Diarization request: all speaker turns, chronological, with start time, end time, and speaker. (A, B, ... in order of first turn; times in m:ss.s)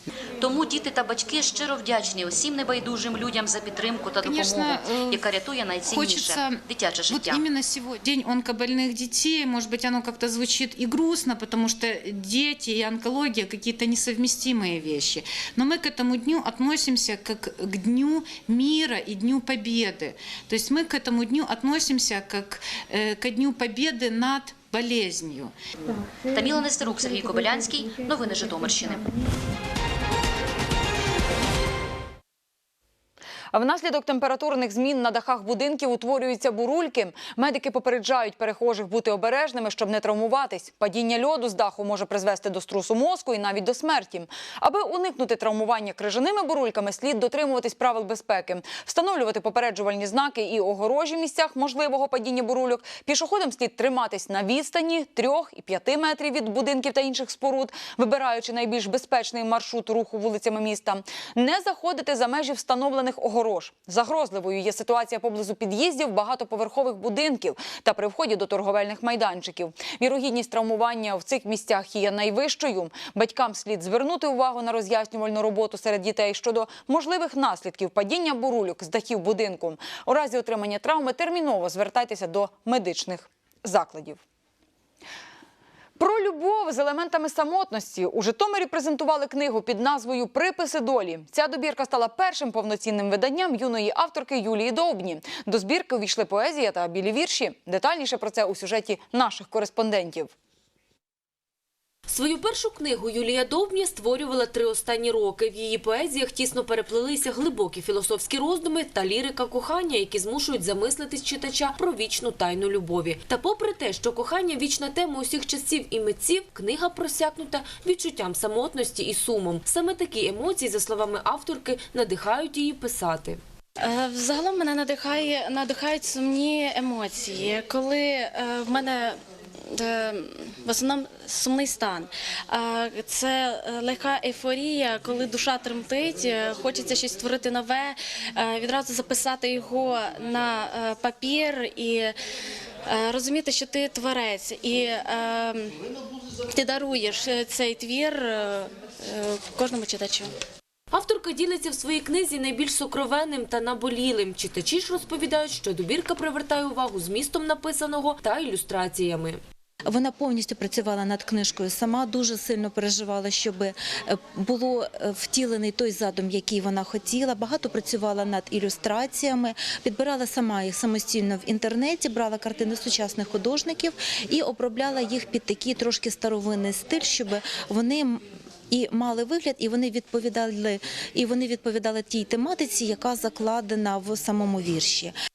0:00.4-0:07.4 A
0:04.2-0:05.2 B
0:05.8-0:25.5 B
0:26.3-0:29.0 A
0:33.5-1:24.2 C
1:26.0-1:40.3 C
1:42.1-2:03.4 D
2:03.8-2:09.2 E
2:09.7-2:22.1 E
2:22.9-2:25.7 E
2:26.5-2:30.3 E
2:30.9-2:39.4 D
2:39.9-3:05.1 F